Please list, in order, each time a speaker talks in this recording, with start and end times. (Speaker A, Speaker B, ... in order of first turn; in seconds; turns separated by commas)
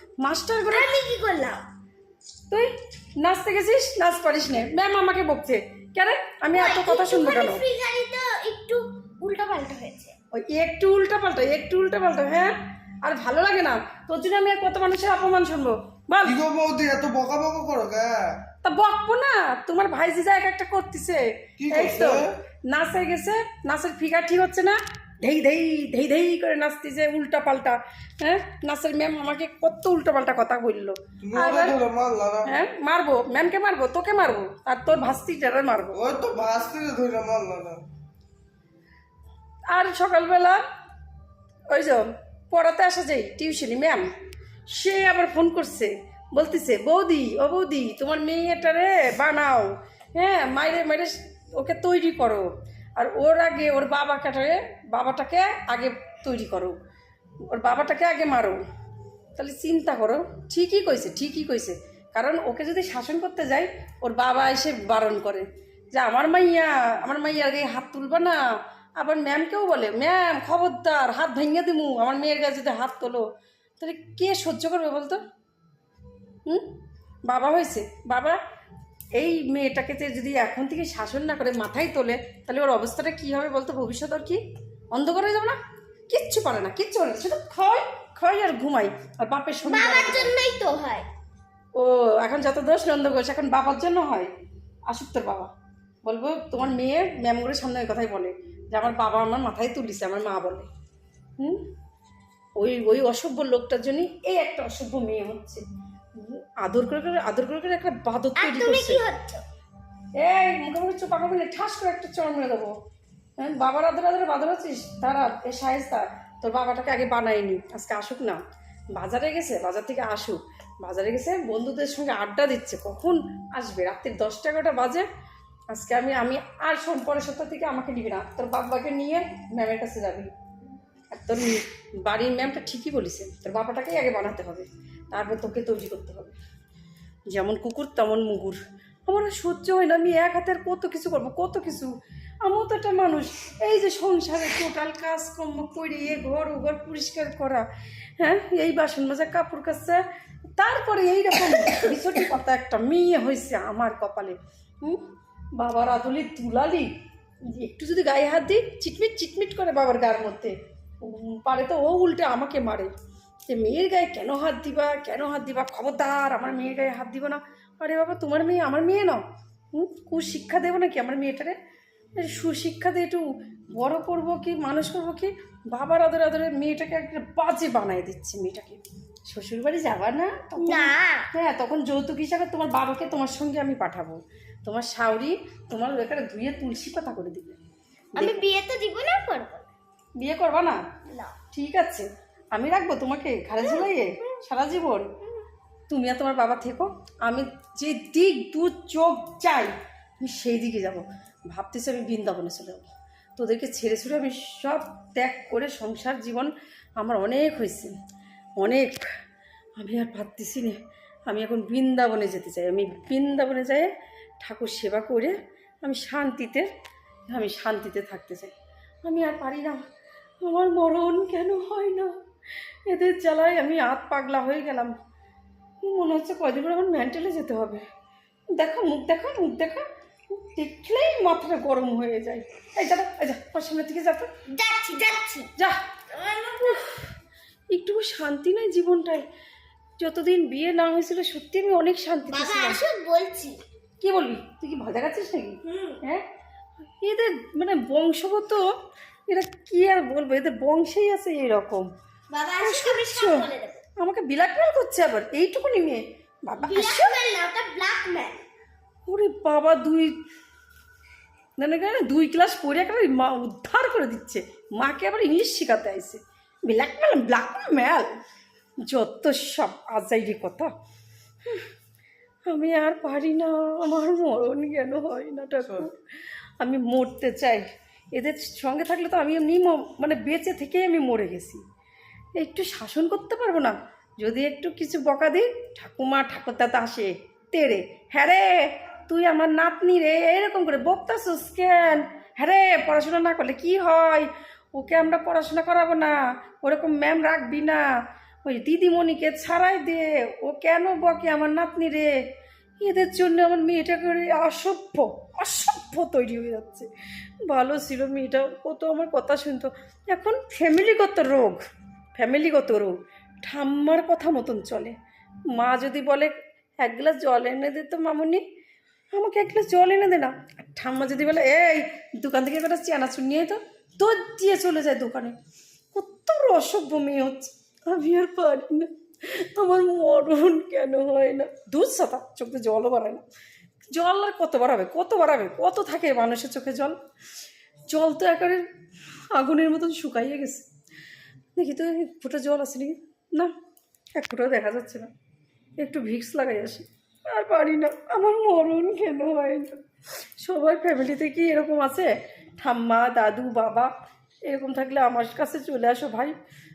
Speaker A: 0.2-0.9, Speaker B: 0.7-1.6, Speaker A: 2.5-7.6, Speaker B: 6.5-10.1, Speaker A: 10.3-16.4, Speaker C: 16.2-18.3, Speaker A: 18.6-31.8, Speaker C: 21.6-22.3, Speaker C: 31.2-32.5, Speaker A: 32.4-36.0, Speaker C: 35.9-37.8, Speaker A: 39.7-40.6, Speaker A: 41.7-44.1, Speaker A: 44.7-56.8, Speaker A: 57.5-58.6, Speaker A: 59.4-68.4, Speaker A: 69.0-73.2, Speaker A: 73.8-75.2, Speaker A: 77.2-78.4, Speaker A: 79.1-84.4, Speaker A: 84.9-85.6, Speaker A: 86.1-90.3, Speaker B: 89.7-91.1, Speaker A: 91.7-94.3, Speaker A: 94.9-95.5, Speaker A: 96.0-100.7, Speaker A: 102.6-105.6, Speaker A: 106.2-109.0, Speaker B: 108.3-109.4, Speaker A: 110.2-112.7, Speaker A: 113.4-118.4, Speaker A: 118.9-125.1, Speaker A: 125.7-130.3, Speaker A: 131.1-136.3, Speaker A: 137.3-141.9, Speaker A: 142.4-147.7, Speaker A: 148.2-150.0, Speaker A: 150.6-156.9, Speaker A: 157.4-162.9, Speaker A: 163.5-169.2, Speaker A: 169.7-171.6, Speaker A: 172.2-187.6, Speaker B: 180.6-181.3, Speaker A: 188.2-188.4, Speaker B: 188.2-189.7, Speaker A: 190.2-190.8, Speaker B: 191.1-191.3, Speaker A: 191.5-195.1, Speaker B: 193.6-194.4, Speaker A: 195.9-207.9, Speaker A: 208.6-209.0, Speaker A: 209.8-213.9, Speaker A: 214.4-216.7, Speaker A: 217.3-218.5, Speaker A: 219.1-219.8, Speaker A: 220.4-222.1, Speaker A: 222.8-224.9, Speaker A: 225.8-227.8, Speaker A: 228.5-234.3, Speaker B: 234.5-235.5, Speaker B: 236.1-236.9, Speaker A: 237.7-239.2, Speaker A: 240.0-242.8, Speaker B: 242.3-243.6, Speaker A: 244.0-246.2, Speaker B: 245.6-246.0, Speaker A: 247.0-248.6, Speaker A: 249.3-251.9, Speaker B: 252.3-253.8, Speaker A: 252.6-257.1, Speaker B: 256.6-258.4, Speaker A: 259.1-260.1, Speaker A: 261.6-268.1, Speaker A: 268.8-270.7, Speaker A: 272.5-276.0, Speaker A: 276.6-281.6, Speaker A: 282.3-297.8, Speaker A: 298.4-302.1, Speaker A: 302.8-306.9, Speaker A: 307.4-311.6, Speaker A: 312.2-314.9, Speaker A: 315.5-318.4, Speaker A: 319.1-325.3, Speaker A: 325.9-333.2, Speaker A: 333.9-336.9, Speaker A: 337.9-338.6, Speaker A: 339.3-340.7, Speaker A: 341.5-343.5, Speaker A: 344.1-345.1, Speaker A: 345.8-349.8, Speaker A: 350.4-353.9, Speaker A: 354.5-356.4